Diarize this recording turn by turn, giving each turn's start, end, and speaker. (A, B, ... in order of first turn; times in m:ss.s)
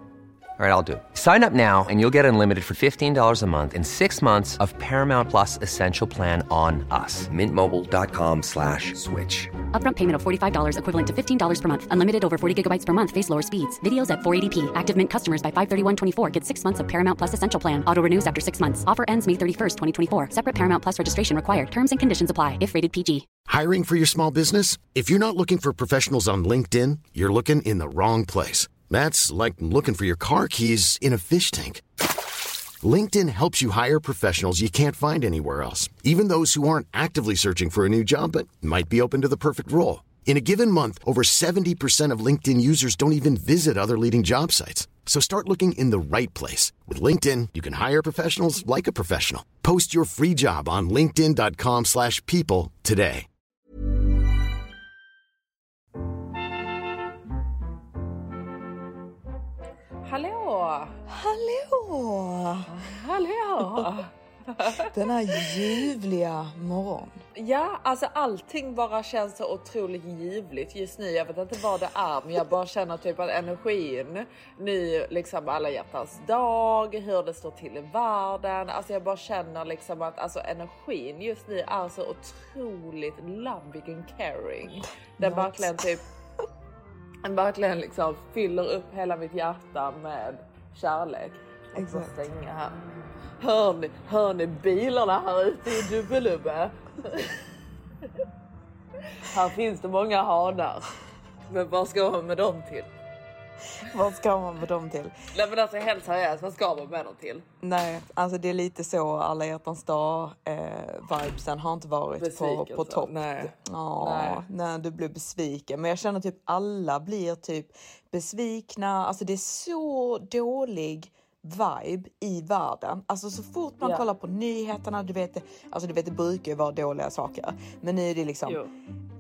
0:00.6-0:09.5 A
0:09.7-0:23.3 B
0:23.4-0:31.8 C
0:32.8-0:53.3 C
1:00.0-1:01.0 D
1:01.1-1:02.7 E
1:02.7-1:05.6 D
1:04.6-1:07.2 E
1:07.4-1:26.0 D
1:25.2-1:25.8 E
1:27.2-1:32.8 D
1:31.8-1:32.2 E
1:33.4-1:37.4 D
1:39.2-1:40.9 D
1:41.5-1:42.9 D
1:43.8-1:45.1 E
1:45.3-1:47.4 D
1:47.6-2:08.6 E
1:52.2-1:54.4 D
2:03.8-2:04.1 D